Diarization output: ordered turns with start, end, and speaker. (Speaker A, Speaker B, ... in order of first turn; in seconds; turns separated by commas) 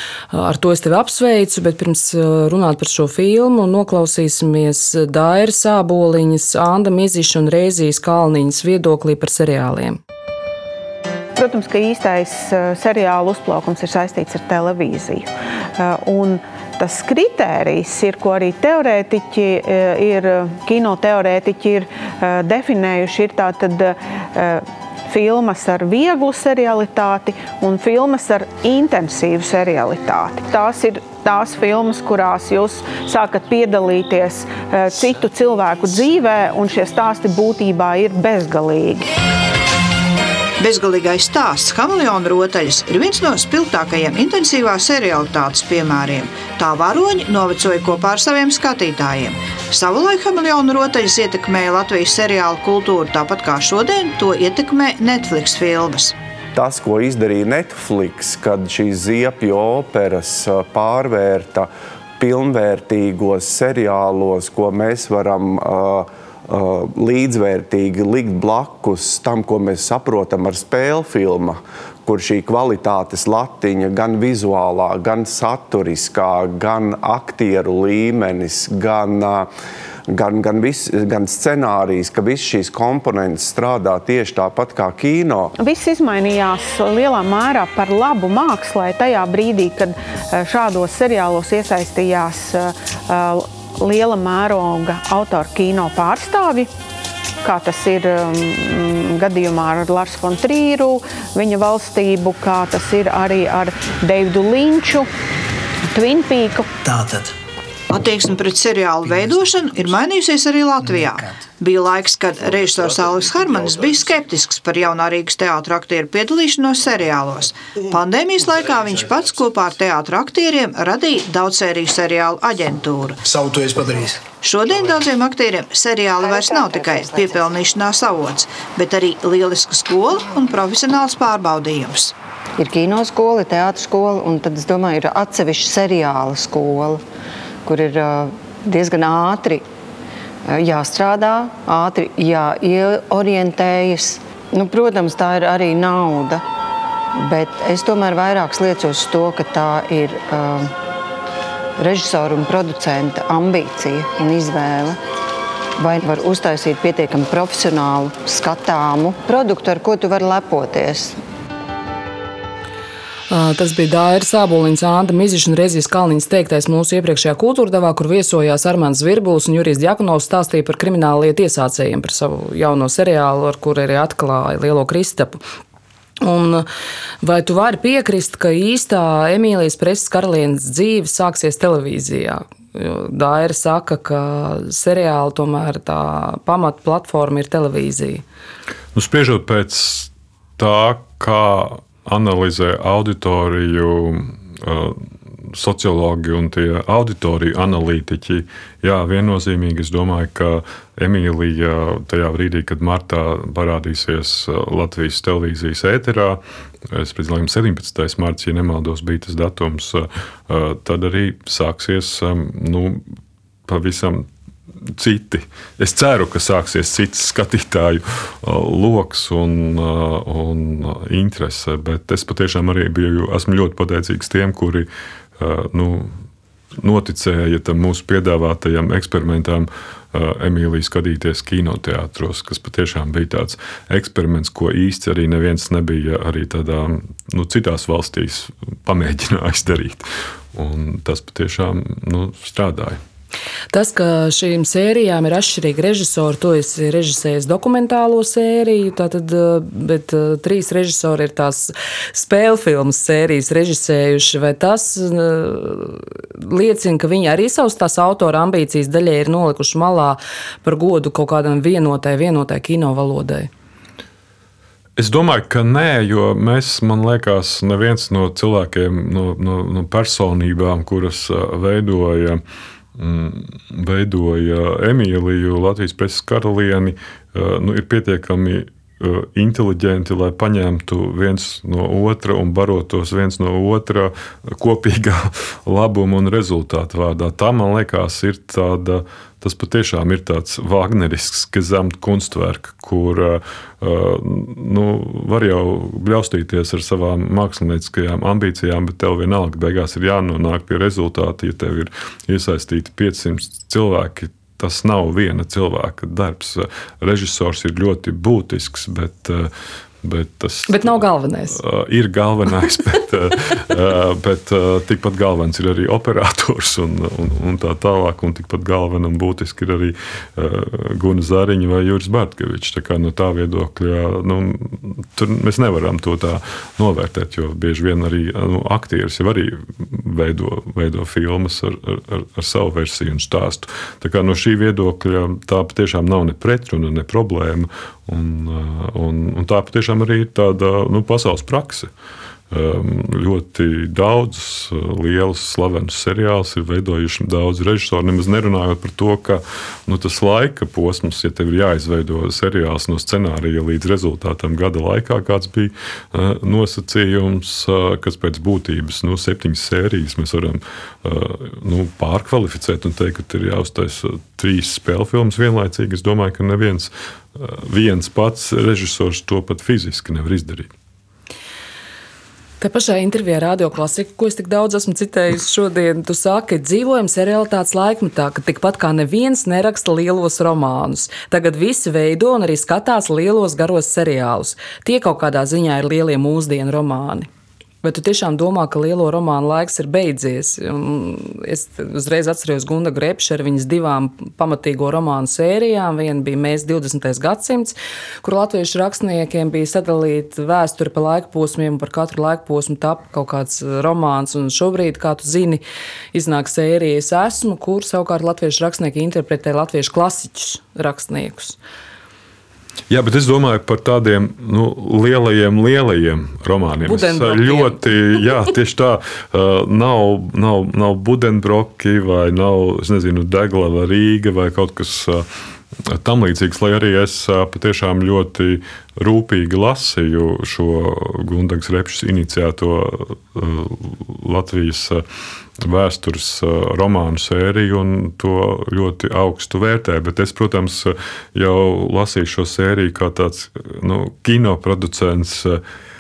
Speaker A: 0.3-10.0, Speaker B: 11.4-39.1, Speaker C: 40.6-56.2, Speaker D: 56.5-79.5, Speaker D: 80.1-85.5, Speaker B: 85.6-96.7, Speaker B: 97.4-105.1, Speaker B: 105.9-106.7, Speaker E: 106.8-107.3, Speaker C: 107.9-123.2, Speaker E: 110.9-111.3, Speaker E: 123.2-124.2, Speaker C: 124.4-132.2, Speaker F: 126.2-127.4, Speaker F: 132.6-137.0, Speaker F: 137.7-139.7, Speaker F: 140.5-146.4, Speaker F: 147.2-150.7, Speaker F: 151.8-155.0, Speaker F: 155.8-161.2, Speaker A: 163.3-175.4, Speaker A: 176.2-176.7, Speaker A: 177.2-188.2, Speaker G: 188.9-213.0, Speaker G: 213.7-226.2, Speaker G: 226.8-243.0, Speaker A: 243.7-263.5, Speaker G: 265.0-272.4, Speaker G: 272.9-309.5, Speaker G: 310.0-341.9, Speaker A: 310.7-311.6, Speaker G: 342.5-370.7, Speaker A: 372.6-387.3, Speaker A: 387.8-405.6, Speaker A: 406.1-411.6, Speaker G: 412.9-435.0, Speaker A: 416.8-417.8, Speaker G: 435.6-445.6